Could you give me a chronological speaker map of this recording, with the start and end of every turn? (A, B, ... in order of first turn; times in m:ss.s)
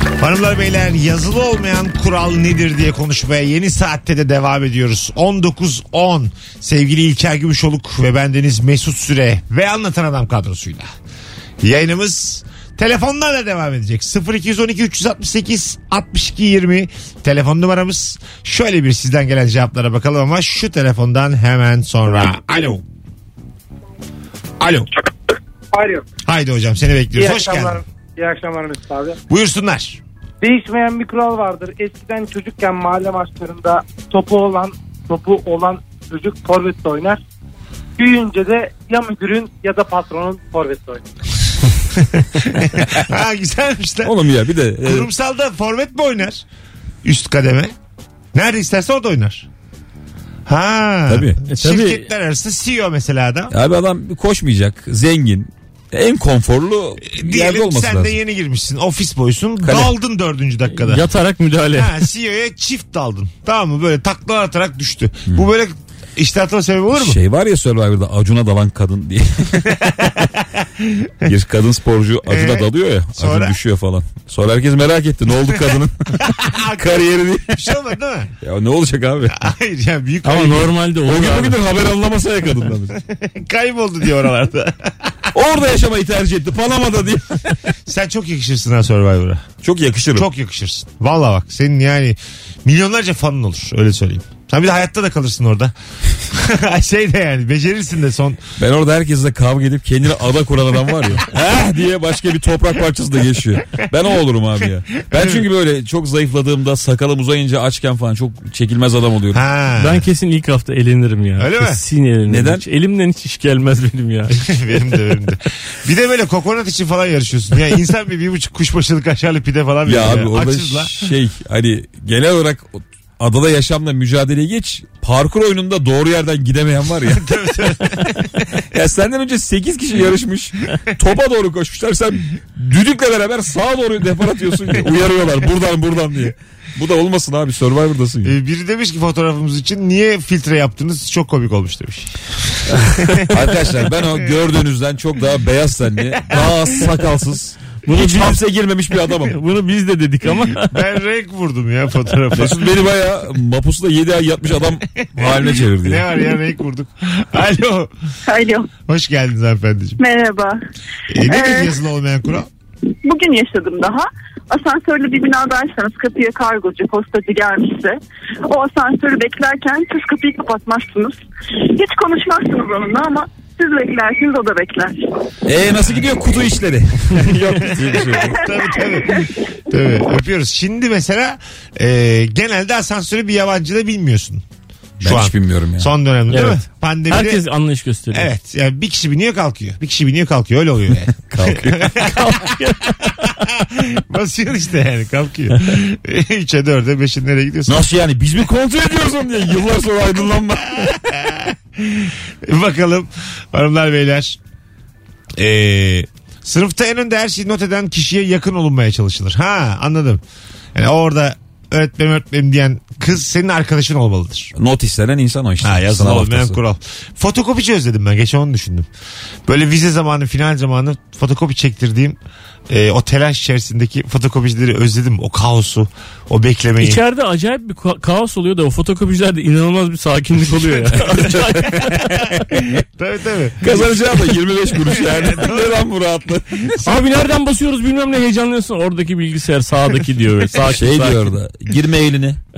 0:00.2-0:10.9 A
0:11.6-0:22.8 A
0:24.6-0:24.9 A
0:25.7-0:26.0 B
0:26.2-0:27.8 A
0:27.1-0:29.2 B
0:29.3-0:30.0 A
0:30.4-0:37.2 B
0:38.0-0:41.0 B
0:42.0-0:44.1 A
0:44.0-0:45.1 C
0:44.8-0:46.4 A
0:47.0-0:47.7 A
0:48.3-0:49.4 A
0:50.4-0:53.5 A
0:51.1-0:51.4 C
0:51.4-0:52.0 D
0:53.5-0:58.2 C
0:57.0-1:01.1 A
0:59.6-0:59.9 C
1:00.7-1:02.0 D
1:01.7-1:07.2 A
1:06.9-1:10.3 C
1:09.6-1:11.3 A
1:11.2-1:17.6 C
1:12.2-1:13.6 A
1:15.5-1:18.3 A
1:18.4-1:19.4 C
1:19.3-1:20.8 A
1:20.2-1:21.6 D
1:21.0-1:23.0 C
1:23.0-1:25.1 A
1:25.3-1:27.5 C
1:27.8-1:29.5 A
1:29.6-1:30.3 C
1:30.1-1:35.7 A
1:36.3-1:38.4 A
1:38.6-1:49.4 C
1:45.1-1:45.4 A
1:49.3-1:50.0 A
1:49.8-1:54.6 D
1:51.4-1:51.8 A
1:52.3-1:52.6 C
1:54.4-2:01.1 A
1:59.8-2:08.1 C
2:07.1-2:08.4 A
2:08.7-2:18.3 C
2:18.2-2:23.5 A
2:22.7-2:29.4 C
2:27.8-2:28.4 D
2:29.3-2:30.8 D
2:30.6-2:32.7 A
2:32.3-2:36.0 C
2:35.1-2:37.9 A
2:38.2-2:38.7 E
2:38.8-2:40.0 A
2:40.0-2:40.6 E
2:41.1-2:42.5 A
2:41.2-2:41.7 E
2:43.0-2:55.1 E
2:55.4-2:58.4 C
2:57.8-3:04.4 A
2:58.5-2:59.3 E
3:05.0-3:05.9 C
3:05.0-3:07.4 A
3:06.3-3:08.3 D
3:08.1-3:12.5 A
3:11.3-3:12.1 C
3:12.0-3:13.4 D
3:13.1-3:17.8 A
3:17.6-3:21.2 C
3:20.8-3:24.4 A
3:25.4-3:30.2 A
3:30.7-3:34.5 A
3:34.6-3:36.6 C
3:35.6-3:38.9 A
3:39.4-3:42.2 A
3:42.7-3:47.0 A
3:46.8-3:52.3 D
3:50.5-3:51.1 A
3:51.1-3:52.0 C
3:51.8-3:54.0 A
3:53.6-3:56.8 C
3:54.8-3:55.8 A
3:56.8-4:01.2 D
4:00.6-4:02.4 C